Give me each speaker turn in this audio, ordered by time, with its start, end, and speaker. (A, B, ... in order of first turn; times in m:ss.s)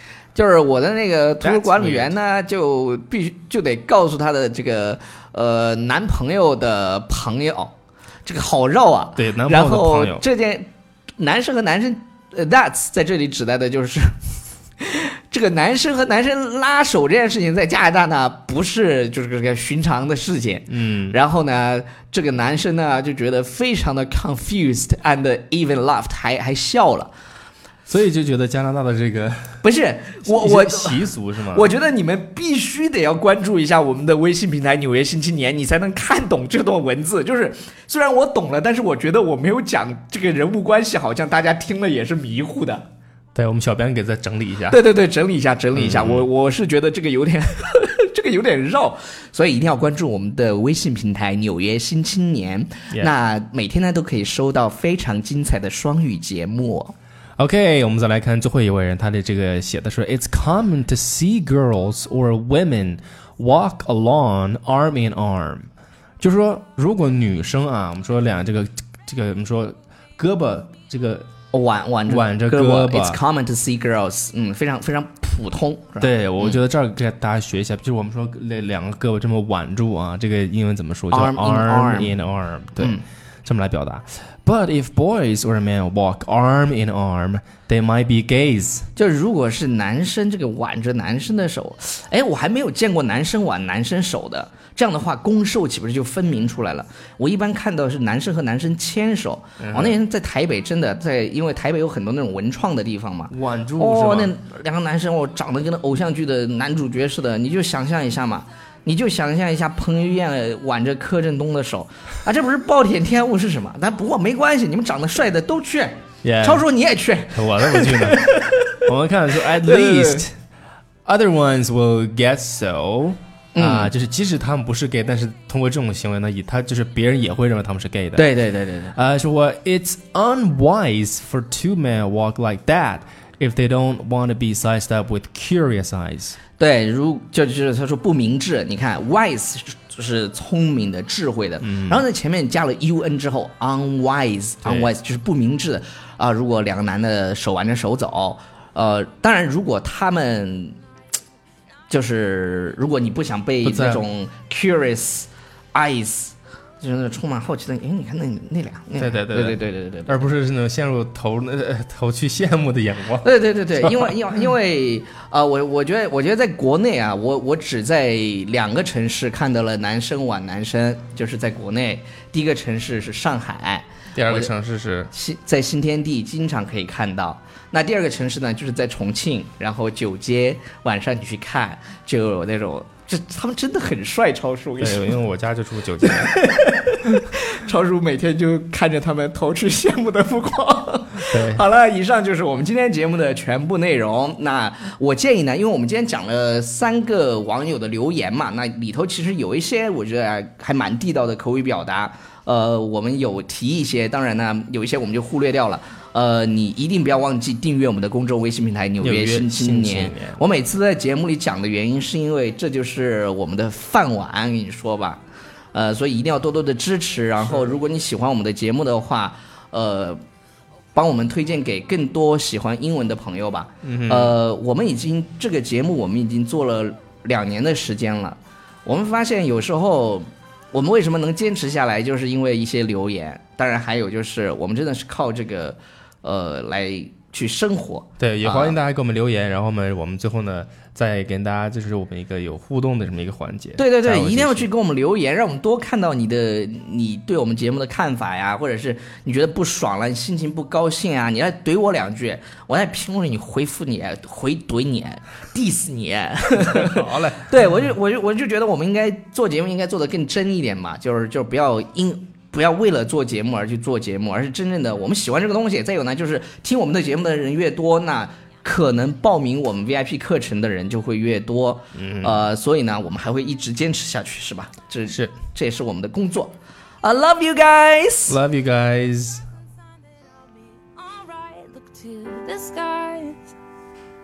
0:00.4-0:07.7 A
0:01.4-0:02.1 B
0:08.2-0:14.2 A
0:09.2-0:10.2 B
0:14.8-0:27.1 A
0:20.7-0:21.2 B
0:27.9-0:29.6 B
0:29.6-0:42.9 A
0:30.3-0:31.7 B
0:43.4-0:44.8 B
0:44.7-0:56.9 A
0:45.7-0:46.3 B
0:57.4-1:05.7 B
1:06.2-1:11.3 B
1:11.5-1:16.6 A
1:12.1-1:13.2 B
1:16.0-1:28.9 B
1:21.1-1:22.2 A
1:22.8-1:23.0 A
1:29.0-1:58.8 A
1:39.6-1:40.0 B
1:43.3-1:44.3 B
1:56.2-1:56.6 B
1:57.3-1:58.3 B
1:58.8-2:00.4 B
1:59.6-2:00.2 A
2:01.1-2:08.3 B
2:03.6-2:03.9 A
2:08.2-2:09.0 A
2:08.9-2:16.4 B
2:16.6-2:30.8 A
2:21.6-2:22.0 B
2:31.9-2:40.2 A
2:33.6-2:34.0 B
2:39.0-2:43.3 B
2:43.2-2:54.5 A
2:43.8-2:44.1 B
2:54.1-2:55.1 B
2:55.1-3:05.2 A
3:04.8-3:06.4 B
3:06.0-3:35.2 A
3:11.2-3:11.6 B
3:29.0-3:30.4 B
3:35.7-3:40.2 A
3:41.0-3:58.8 A
3:43.8-3:44.4 B
3:58.2-4:04.7 B
4:03.8-4:38.4 A
4:16.6-4:17.7 B
4:31.9-4:32.4 B
4:38.3-4:39.4 B
4:40.9-4:43.5 C